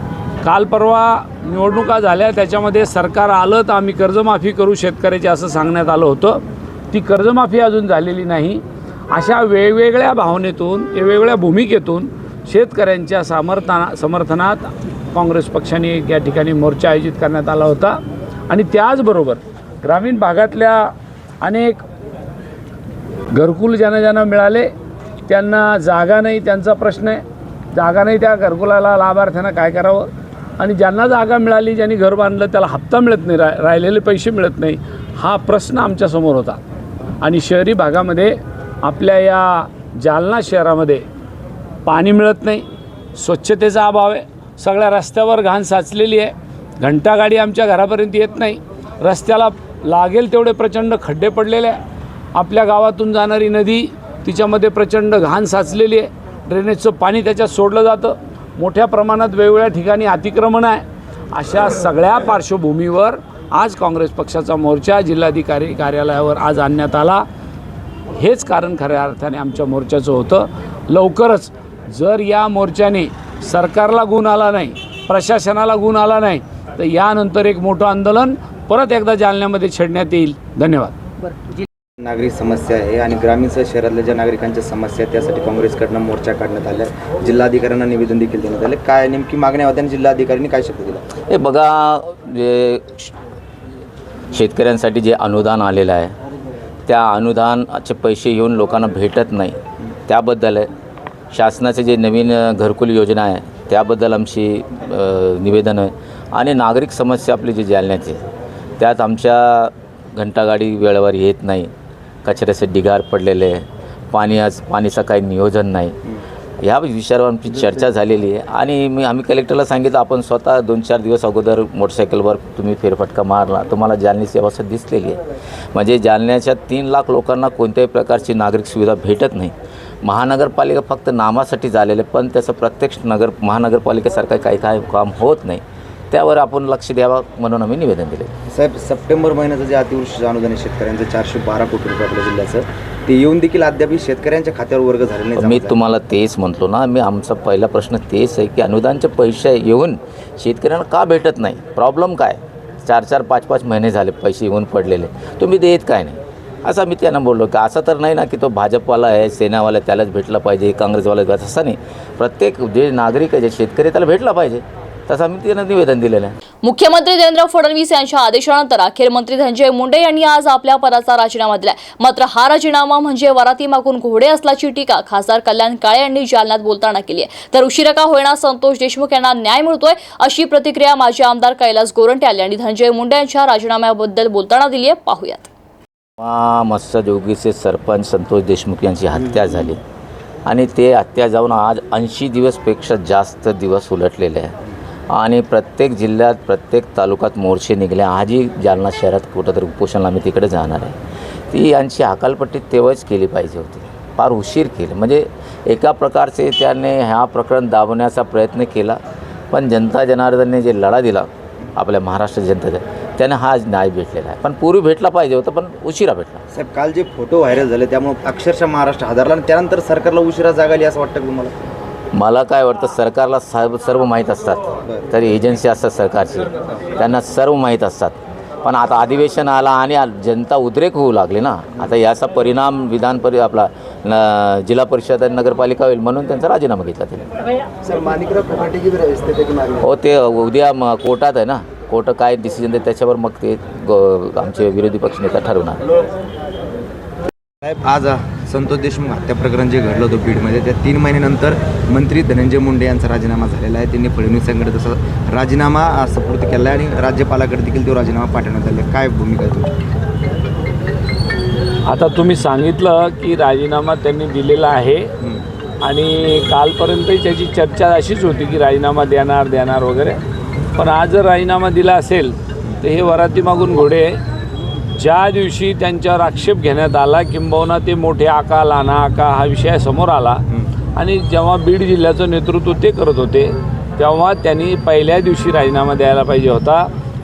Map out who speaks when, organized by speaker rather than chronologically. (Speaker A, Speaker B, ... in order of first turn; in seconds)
Speaker A: 0.4-18.0, 18.5-21.8, 23.3-24.7, 25.3-27.2, 27.7-36.6, 37.2-41.0, 41.9-42.6, 43.1-51.8, 52.3-67.2, 68.1-80.9, 261.9-265.1, 265.8-270.2, 270.8-274.2, 275.0-280.4, 280.9-286.9
Speaker B: 82.0-91.1, 138.5-145.8, 216.5-221.6, 237.8-239.8, 247.6-259.7
Speaker C: 91.3-93.1, 94.3-96.2, 96.8-100.7, 101.3-108.2, 108.8-111.7, 112.2-116.0, 116.6-125.2, 125.7-138.3, 145.4-166.3, 186.2-189.8, 190.4-194.6, 195.1-201.0, 201.5-209.0, 209.5-216.4, 222.1-237.2, 239.8-245.8
Speaker D: 166.6-185.5